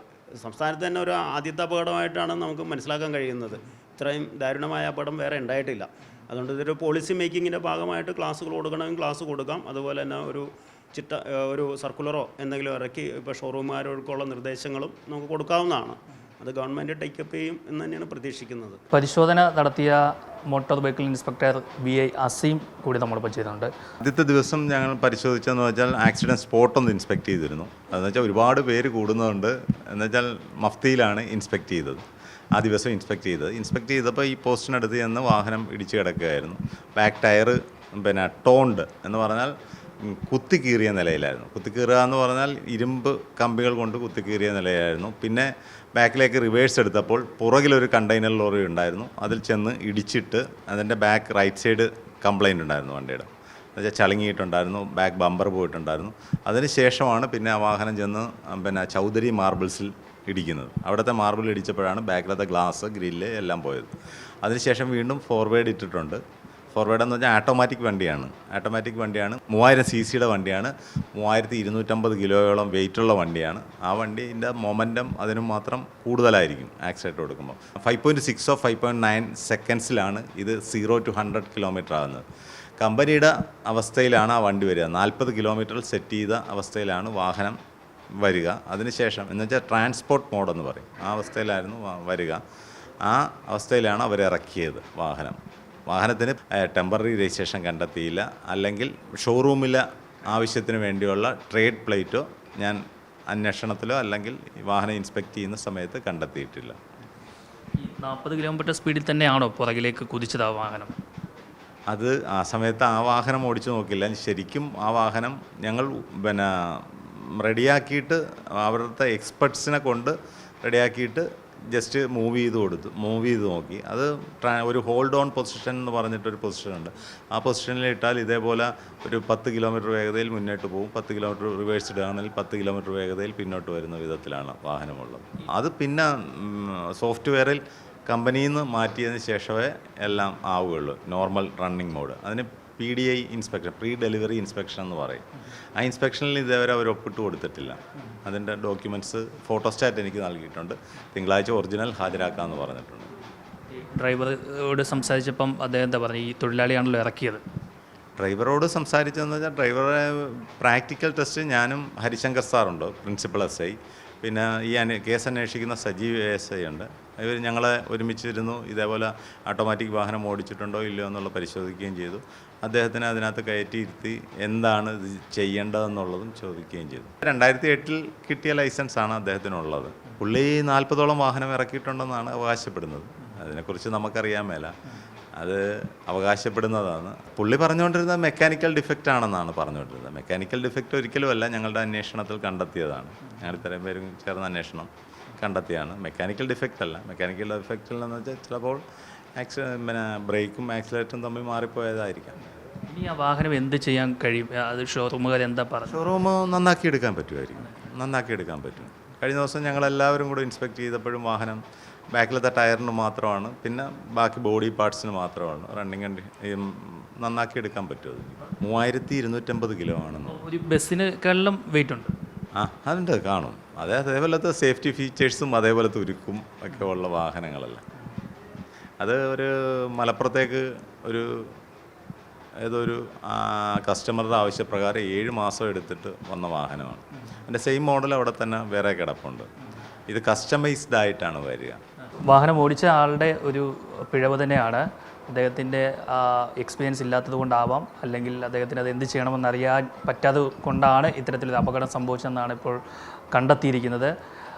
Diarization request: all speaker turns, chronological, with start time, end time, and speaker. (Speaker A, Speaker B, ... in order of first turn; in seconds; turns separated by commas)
Speaker A: 0.3-18.8, Speaker B: 18.9-23.7, Speaker C: 24.0-32.0, Speaker C: 32.5-63.9, Speaker C: 64.4-66.2, Speaker C: 66.7-82.2, Speaker C: 82.8-87.6, Speaker C: 88.2-92.4, Speaker C: 93.0-106.8, Speaker B: 107.8-110.9, Speaker C: 111.9-153.1, Speaker B: 153.8-157.4, Speaker C: 158.2-184.7, Speaker C: 185.4-198.8, Speaker C: 199.4-202.4, Speaker B: 202.9-206.0, Speaker C: 205.9-220.4, Speaker B: 220.3-222.1, Speaker C: 222.6-227.8, Speaker C: 229.0-231.6, Speaker C: 232.6-239.5, Speaker C: 240.1-241.8, Speaker B: 242.2-252.8, Speaker B: 253.3-254.1